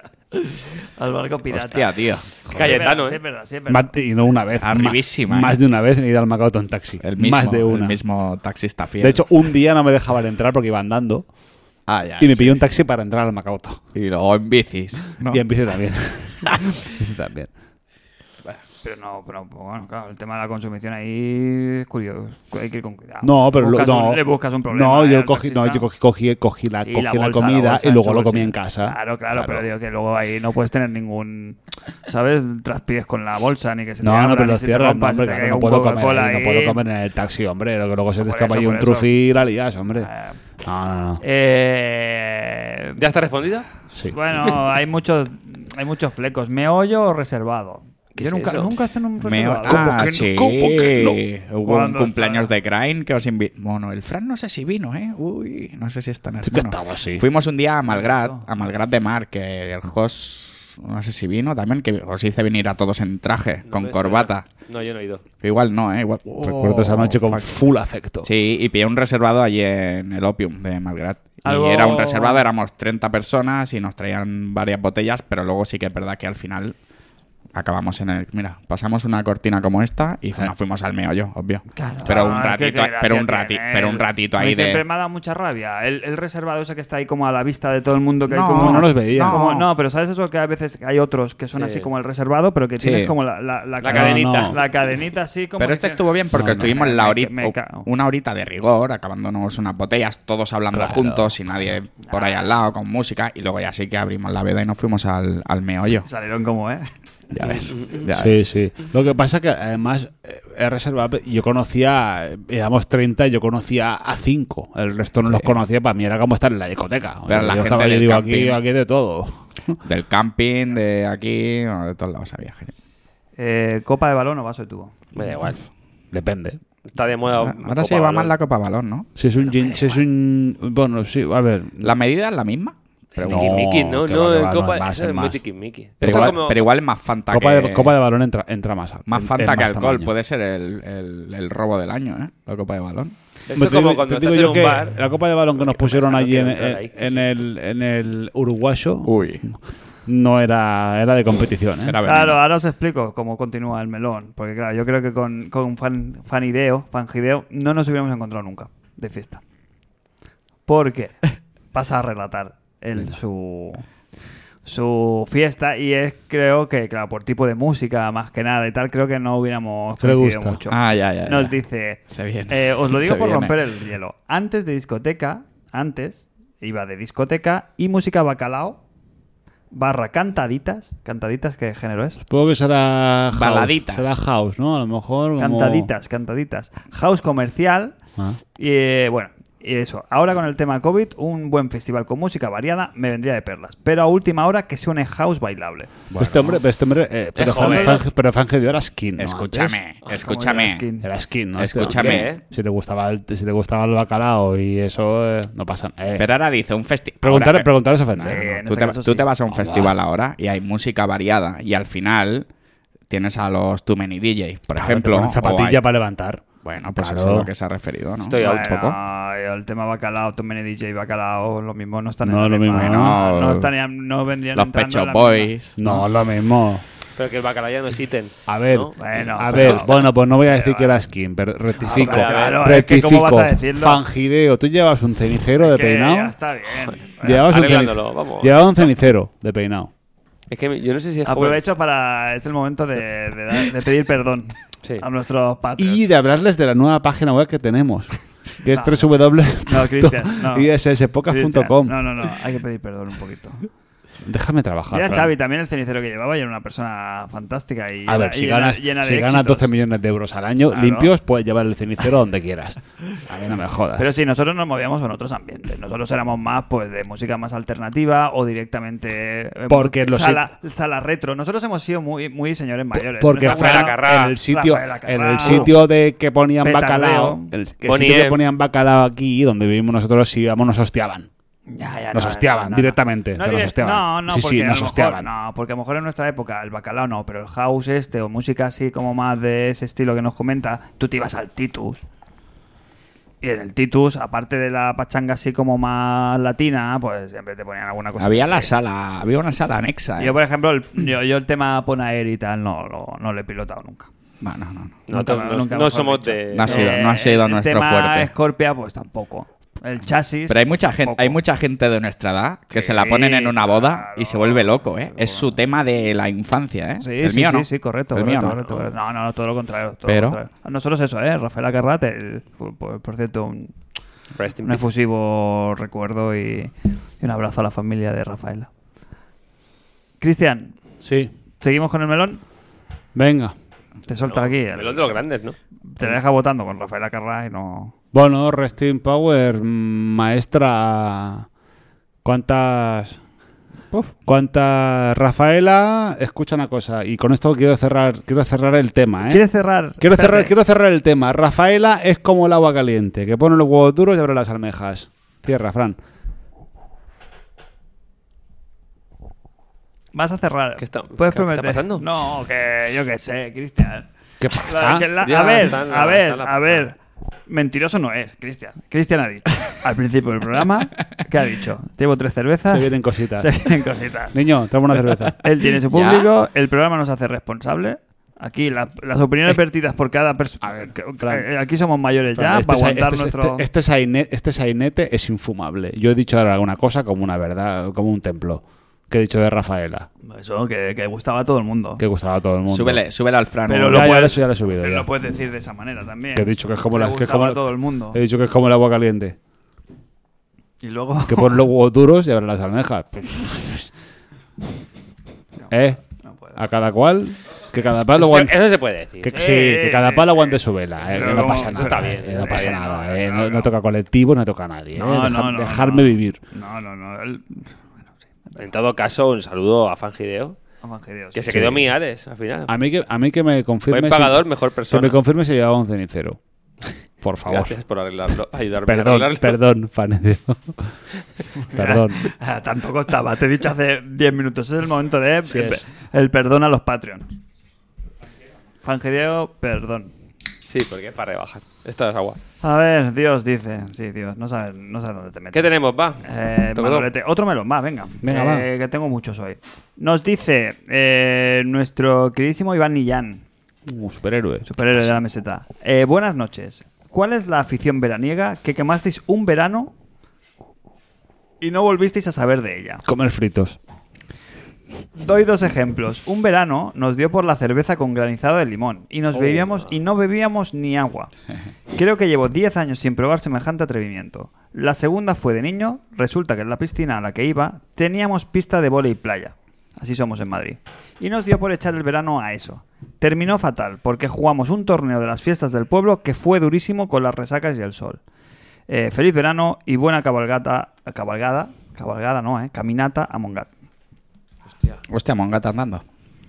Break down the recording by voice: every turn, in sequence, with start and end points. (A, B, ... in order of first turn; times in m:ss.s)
0:00.3-0:02.0 A
0:01.5-0:02.8 B
0:02.5-0:03.9 A
0:02.5-0:03.2 C
0:03.7-0:08.0 D
0:04.6-0:05.6 B
0:07.0-0:09.2 B
0:09.0-0:11.2 D
0:11.9-0:12.6 B
0:12.2-0:13.8 D
0:13.9-0:15.4 B
0:15.3-0:17.5 D
0:18.8-0:25.8 A
0:23.2-0:29.6 D
0:26.8-0:36.8 A
0:34.0-0:40.1 D
0:38.2-0:39.1 A
0:40.0-0:40.4 A
0:40.6-0:41.2 D
0:41.2-0:43.0 A
0:43.0-0:43.7 C
0:44.0-0:50.0 A
0:48.2-0:48.7 C
0:49.2-1:04.5 B
0:49.6-0:51.2 D
0:51.6-0:52.5 A
0:56.4-0:57.3 D
0:57.9-0:58.5 A
1:03.6-1:05.2 C
1:05.4-1:07.5 B
1:06.4-1:08.3 D
1:08.2-1:16.8 B
1:11.4-1:12.5 A
1:17.5-1:24.8 B
1:21.8-1:37.9 A
1:28.3-1:29.7 B
1:28.5-1:29.4 D
1:31.6-1:31.9 C
1:32.8-1:33.2 B
1:33.8-1:34.6 C
1:33.9-1:34.6 D
1:35.6-1:46.1 B
1:36.3-1:36.7 D
1:40.7-1:41.6 D
1:42.1-1:42.5 A
1:46.0-1:46.9 A
1:47.3-1:48.5 B
1:47.6-1:48.0 C
1:48.1-1:59.8 D
1:55.3-1:55.6 B
1:57.3-1:58.6 B
1:59.8-2:02.7 B
2:03.4-2:05.0 A
2:05.2-2:05.6 C
2:06.1-2:06.6 D
2:06.9-2:08.4 C
2:07.3-2:09.1 B
2:09.2-2:12.0 D
2:11.8-2:13.7 B
2:13.2-2:16.6 C
2:13.2-2:15.4 D
2:16.0-2:16.4 D
2:16.0-2:18.0 B
2:17.3-2:20.1 D
2:19.1-2:23.2 B
2:23.5-2:25.0 C
2:23.5-2:32.0 D
2:25.6-2:27.4 C
2:29.0-2:29.4 B
2:31.8-2:32.4 B
2:32.0-2:39.4 A
2:40.7-2:43.8 A
2:44.6-2:58.8 A
2:50.0-2:50.6 D
2:50.7-2:51.6 B
2:52.1-2:53.6 B
2:59.7-3:02.2 A
3:02.3-3:05.9 D
3:03.3-3:04.2 B
3:05.4-3:08.0 A
3:08.6-3:15.9 A
3:16.1-3:16.6 B
3:16.1-3:19.8 D
3:17.4-3:18.1 C
3:17.5-3:18.0 A
3:19.2-3:20.9 B
3:20.1-3:21.1 A
3:21.0-3:26.3 D
3:21.6-3:22.4 B
3:21.8-3:22.4 C
3:26.2-3:32.5 B
3:27.2-3:28.4 D
3:28.2-3:29.4 A
3:29.5-3:29.9 D
3:33.1-3:35.8 B
3:34.7-3:37.5 D
3:36.6-3:39.0 B
3:38.2-3:38.9 C
3:38.4-3:46.0 A
3:42.2-3:43.2 D
3:42.7-3:43.7 B
3:44.6-3:45.8 B
3:45.8-3:46.8 D
3:47.2-3:50.1 C
3:48.5-3:56.3 D
3:49.0-3:51.0 A
3:51.8-3:54.0 A
3:51.8-3:52.7 C
3:55.6-3:57.5 A
3:56.9-3:58.6 C
3:57.2-3:59.9 D
4:00.5-4:01.6 C
4:01.3-4:06.0 A
4:05.8-4:12.0 D
4:08.7-4:10.7 A
4:11.3-4:13.7 A
4:14.2-4:15.3 D
4:14.9-4:19.7 A
4:18.1-4:24.1 D
4:20.7-4:21.1 A
4:24.0-4:35.8 A
4:29.7-4:30.5 D
4:32.9-4:41.3 D
4:33.4-4:34.4 C
4:35.4-4:35.7 C
4:36.6-4:37.5 A
4:37.8-4:38.4 C
4:41.7-4:52.0 A
4:42.1-4:45.3 D
4:53.4-4:58.7 A
4:58.2-5:00.4 B
5:00.2-5:04.1 A
5:04.4-5:05.0 B
5:05.1-5:07.0 C
5:05.1-5:11.4 A
5:06.5-5:08.3 B
5:10.5-5:18.6 B
5:12.7-5:15.6 A
5:17.0-5:23.8 A
5:20.1-5:20.4 B
5:24.4-5:24.9 C
5:24.6-5:28.7 A
5:30.2-5:30.8 A
5:31.0-5:31.3 D
5:31.6-5:32.4 A
5:33.2-5:33.5 D
5:34.1-5:35.2 A
5:34.3-5:35.6 C
5:35.8-5:37.9 A
5:38.1-5:41.5 D
5:42.2-5:43.2 D
5:44.3-5:49.4 D
5:49.3-5:50.5 A
5:50.0-5:56.0 D
6:00.1-6:14.4 A
6:00.8-6:02.0 C
6:04.4-6:05.1 D
6:05.2-6:06.8 C
6:12.7-6:13.5 D
6:14.3-6:15.4 D
6:15.4-6:23.7 A
6:15.9-6:16.3 B
6:20.6-6:21.5 D
6:22.4-6:30.1 D
6:30.2-6:32.0 A
6:32.0-6:33.0 D
6:32.7-6:34.3 B
6:33.7-6:38.2 A
6:33.8-6:35.1 D
6:36.4-6:39.4 D
6:40.8-6:41.7 A
6:41.3-6:43.9 D
6:45.7-6:46.0 D
6:46.2-6:46.6 A
6:46.6-6:48.6 D
6:48.2-6:49.3 C
6:49.2-6:56.4 D
6:49.3-6:53.7 A
6:51.1-6:53.1 C
6:55.0-6:57.8 A
6:58.6-7:00.6 C
7:00.8-7:01.6 A
7:01.3-7:02.7 C
7:01.5-7:01.9 D
7:02.7-7:06.4 D
7:03.9-7:05.2 C
7:07.2-7:07.8 D
7:07.5-7:09.6 C
7:08.8-7:11.0 D
7:11.7-7:17.3 A
7:11.7-7:12.2 D
7:15.5-7:15.8 D
7:18.8-7:20.1 A
7:20.7-7:22.4 C
7:22.6-7:25.7 A
7:25.5-7:27.1 C
7:26.2-7:33.4 A
7:28.2-7:28.7 D
7:33.9-7:35.1 D
7:34.6-7:39.9 A
7:41.6-7:43.0 A
7:43.0-7:43.8 D
7:45.2-7:51.3 A
7:49.3-7:49.6 D
7:51.9-8:08.2 A
8:08.9-8:13.7 A
8:15.1-8:16.0 B